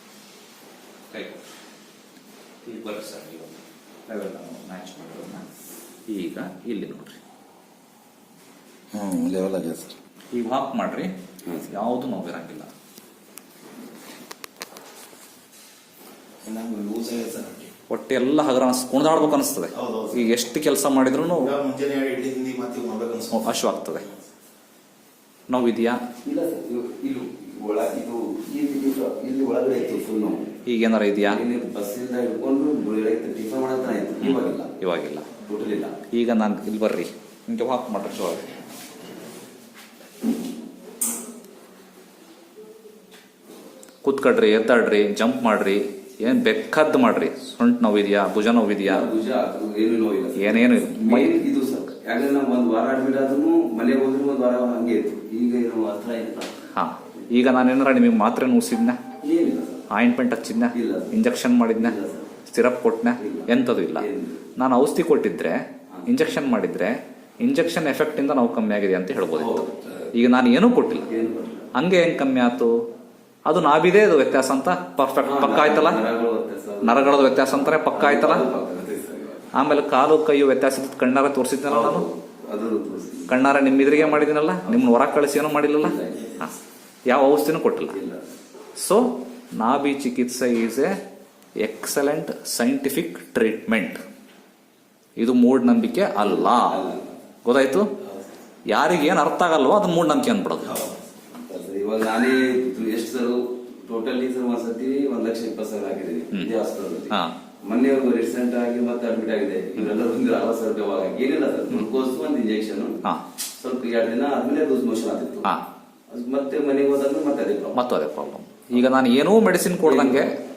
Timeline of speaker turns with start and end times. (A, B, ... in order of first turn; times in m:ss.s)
0:01.1-0:01.5 A
0:02.6-0:05.4 A
0:06.1-0:07.2 A
0:08.9-0:09.9 B
0:10.3-0:11.1 A
0:11.4-0:11.7 C
0:11.7-0:12.7 A
0:16.4-0:17.7 B
0:17.9-0:21.5 A
0:19.7-0:20.3 B
0:21.4-0:23.6 B
0:23.3-0:24.1 A
0:25.5-0:26.0 A
0:26.2-0:30.5 C
0:30.6-0:31.4 A
0:31.3-0:34.8 C
0:34.2-0:35.3 A
0:35.4-0:36.0 C
0:36.1-0:38.5 A
0:44.0-0:49.1 A
0:48.8-0:56.5 C
0:50.4-0:51.4 A
0:56.7-0:59.0 A
0:59.2-0:59.9 C
0:59.9-1:11.1 A
1:00.7-1:02.3 C
1:03.2-1:04.5 C
1:09.3-1:10.1 C
1:11.0-1:11.7 C
1:11.7-1:12.7 A
1:13.4-1:16.0 A
1:15.2-1:19.6 C
1:16.8-1:18.4 A
1:19.5-1:22.0 A
1:21.7-1:25.2 C
1:23.3-1:26.5 A
1:25.8-1:26.6 C
1:27.0-1:28.0 A
1:27.9-1:28.3 C
1:28.8-1:31.0 A
1:31.6-1:34.0 A
1:35.2-1:36.8 A
1:36.2-1:37.2 C
1:37.4-1:37.9 A
1:38.7-1:40.9 A
1:41.3-1:53.0 C
1:53.6-1:55.5 C
1:56.1-1:57.8 C
1:57.7-2:00.4 A
1:59.8-2:00.3 C